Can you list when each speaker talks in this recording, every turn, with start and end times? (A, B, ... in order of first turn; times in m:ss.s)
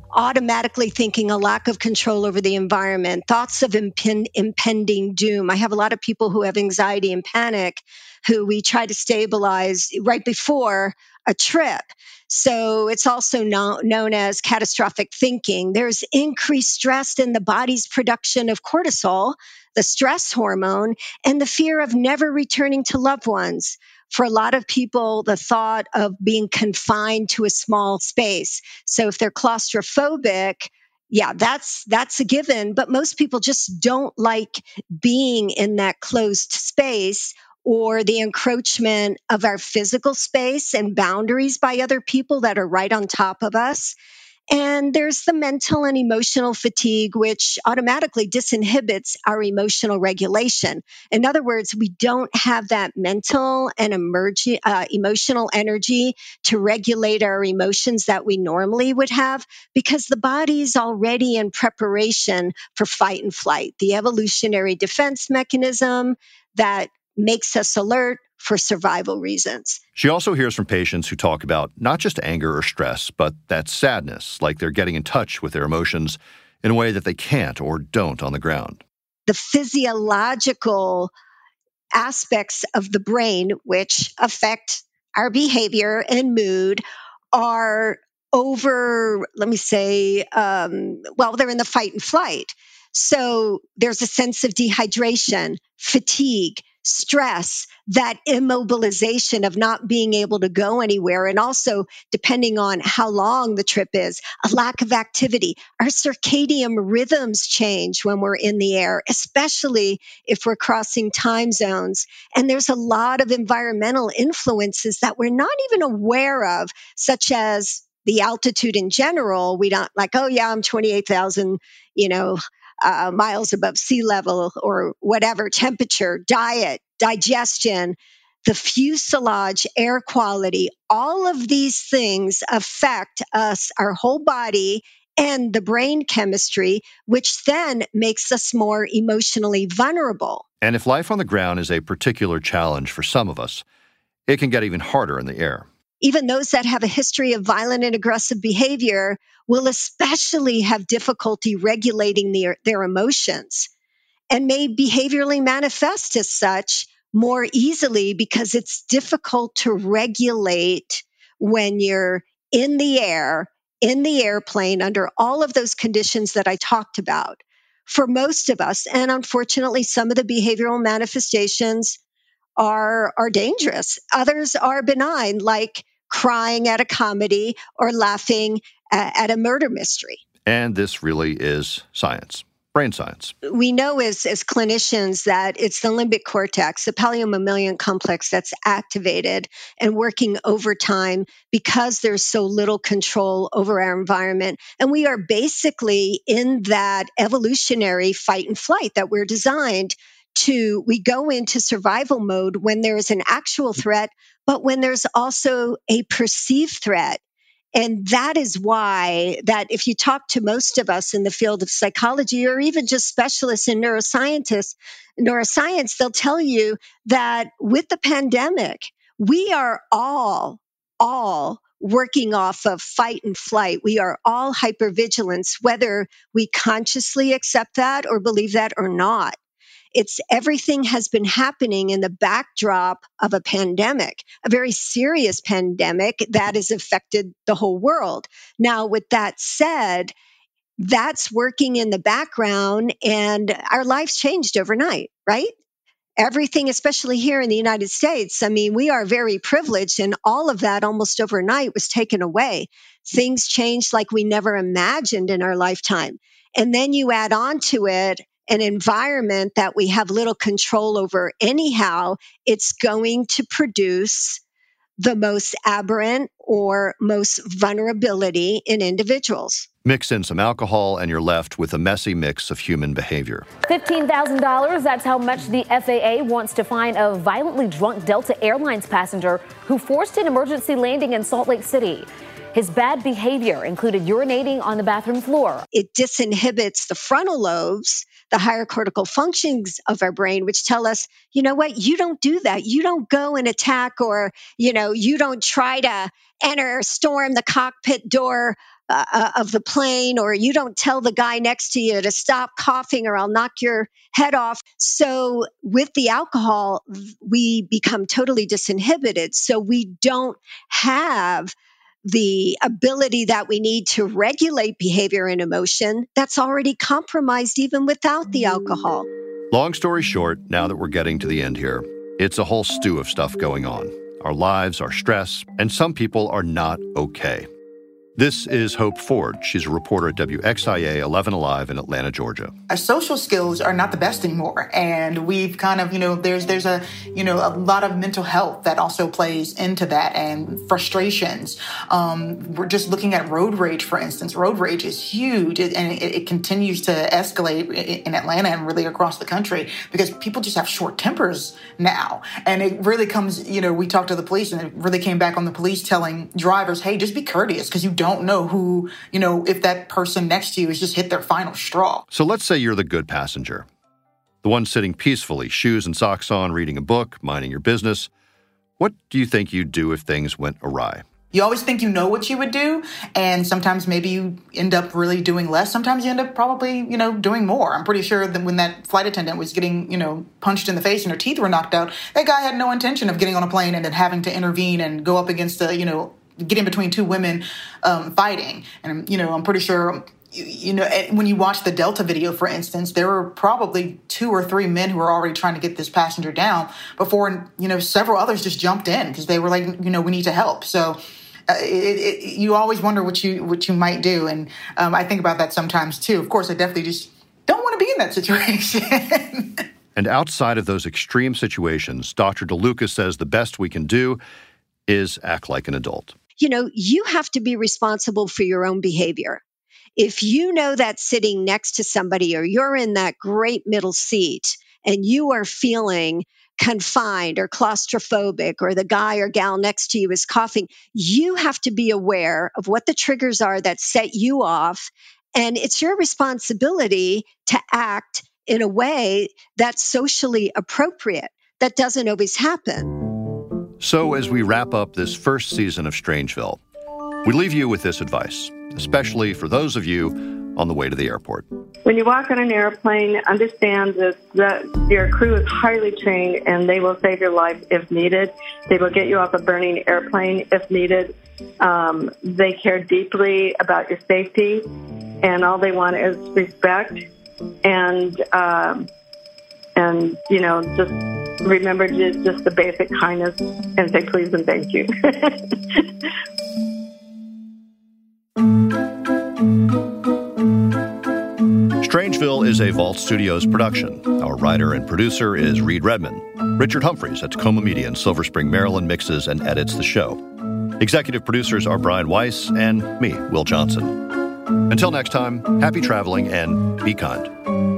0:00.1-0:44.0 A
0:44.5-1:09.8 A
1:10.0-1:18.8 B
1:19.3-1:21.1 A
1:22.0-2:20.4 A
2:20.6-2:23.6 B
2:24.3-2:25.7 B
2:26.0-2:33.7 A
2:34.3-2:52.0 A
2:52.6-3:00.2 A
3:00.4-3:03.4 B
3:03.4-3:27.2 A
3:27.7-3:49.4 A
3:49.9-4:00.1 A
4:00.8-4:05.5 A
4:06.2-4:24.4 A
4:25.0-4:29.7 A
4:29.8-4:33.5 B
4:33.6-4:45.7 C
4:45.7-5:11.5 A
5:12.0-5:19.1 A
5:19.5-5:27.5 B
5:28.2-5:32.5 B
5:32.7-6:02.0 D
6:02.1-6:03.7 B
6:04.4-6:08.1 B
6:08.8-6:11.0 B
6:11.3-6:49.6 D
6:50.0-6:54.2 B
6:54.9-6:56.2 B
6:56.4-6:59.4 A
7:00.0-7:23.0 A
7:23.8-7:26.6 B
7:27.2-7:31.4 B
7:31.9-7:44.6 E
7:45.2-7:47.1 E
7:47.6-7:48.9 E
7:49.8-7:55.8 E
8:01.8-8:10.2 B
8:10.8-8:17.3 B